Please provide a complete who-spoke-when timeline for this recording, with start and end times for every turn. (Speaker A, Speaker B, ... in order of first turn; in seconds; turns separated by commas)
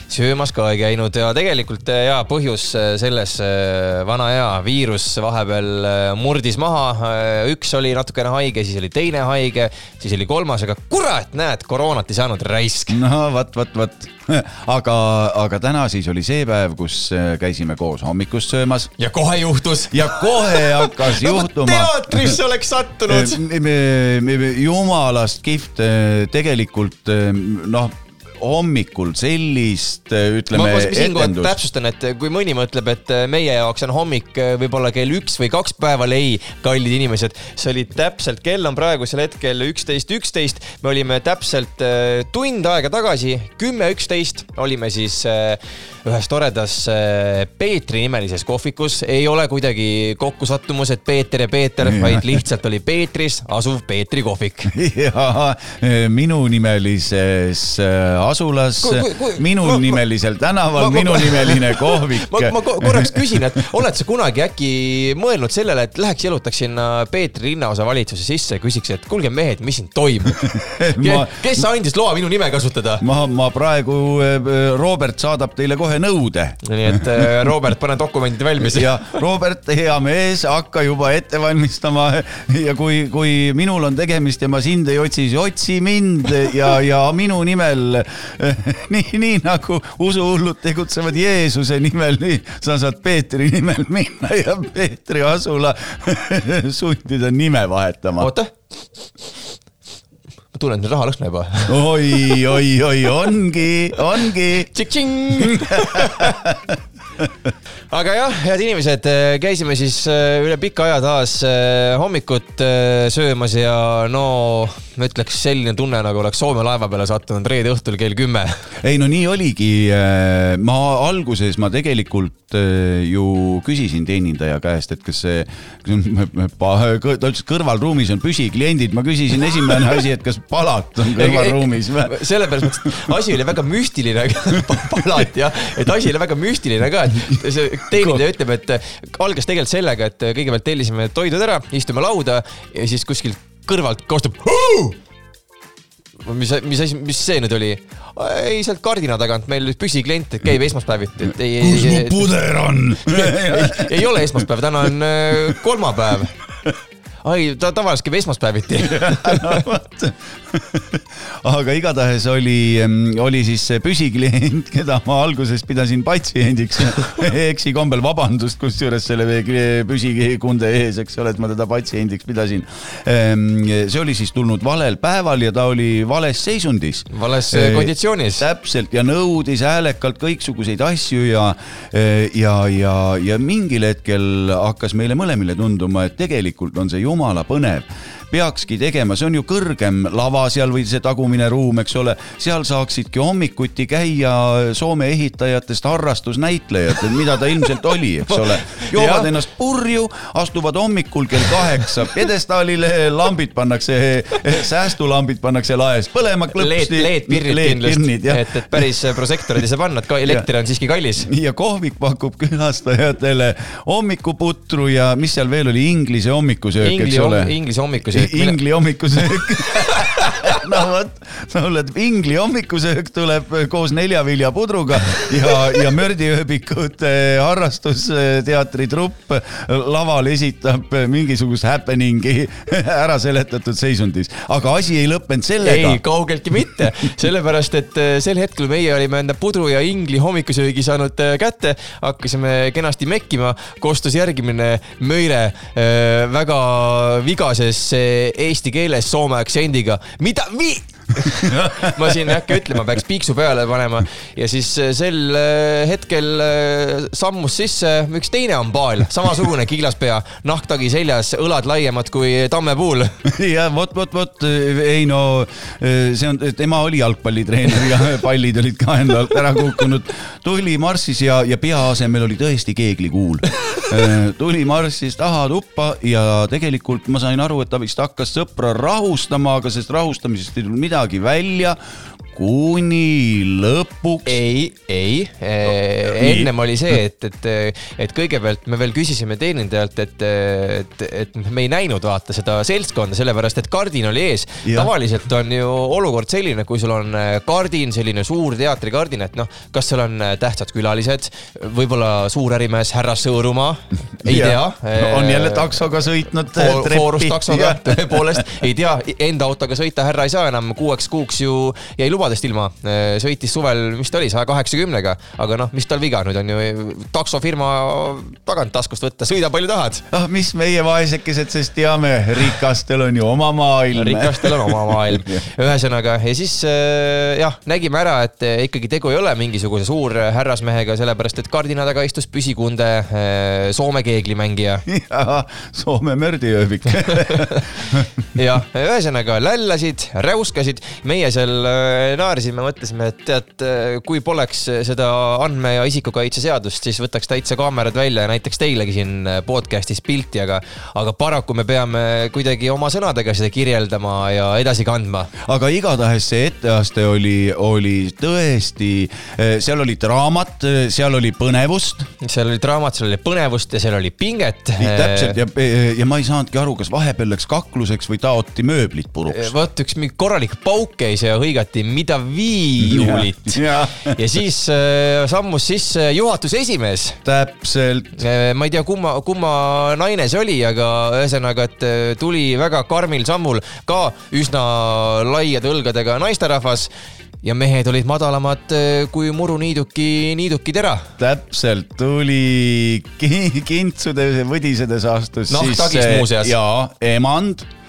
Speaker A: 0.1-13.0, Speaker B: 12.9-18.9, Speaker A: 19.0-23.4, Speaker B: 19.9-22.4, Speaker B: 23.1-31.6, Speaker A: 30.5-54.7, Speaker B: 51.8-52.4, Speaker B: 54.7-63.4, Speaker A: 58.8-60.0, Speaker A: 60.8-73.0, Speaker B: 70.4-71.7, Speaker B: 73.0-77.5, Speaker A: 76.6-79.1, Speaker B: 78.6-98.3, Speaker A: 98.2-98.5, Speaker A: 100.5-102.5, Speaker B: 101.7-104.7, Speaker A: 104.6-106.4, Speaker B: 105.4-107.3, Speaker A: 107.9-118.7, Speaker B: 118.8-132.2, Speaker A: 131.2-145.0, Speaker B: 132.8-133.1, Speaker A: 146.2-152.3, Speaker B: 151.6-154.5, Speaker A: 153.1-156.3, Speaker A: 157.2-159.7, Speaker B: 158.8-208.9, Speaker A: 177.1-178.5, Speaker A: 198.3-199.3, Speaker A: 201.5-201.8, Speaker A: 206.5-211.3, Speaker B: 211.3-217.5, Speaker A: 216.8-218.6, Speaker B: 218.1-236.0, Speaker A: 219.9-220.6, Speaker A: 235.6-263.2, Speaker B: 251.4-252.6, Speaker B: 263.2-281.8, Speaker B: 282.3-284.4, Speaker A: 284.3-305.8, Speaker B: 286.1-286.5, Speaker B: 294.6-294.9, Speaker B: 304.2-308.4, Speaker A: 306.5-320.1, Speaker B: 320.1-325.4, Speaker A: 323.9-334.9, Speaker B: 334.9-338.1, Speaker A: 337.0-337.8, Speaker A: 338.4-355.3, Speaker B: 355.4-362.1, Speaker A: 362.2-365.4, Speaker B: 364.8-369.5, Speaker A: 369.3-377.2, Speaker B: 372.8-374.2, Speaker B: 377.2-378.2, Speaker A: 378.2-386.9, Speaker A: 387.4-391.1, Speaker B: 391.2-397.7, Speaker A: 395.5-396.6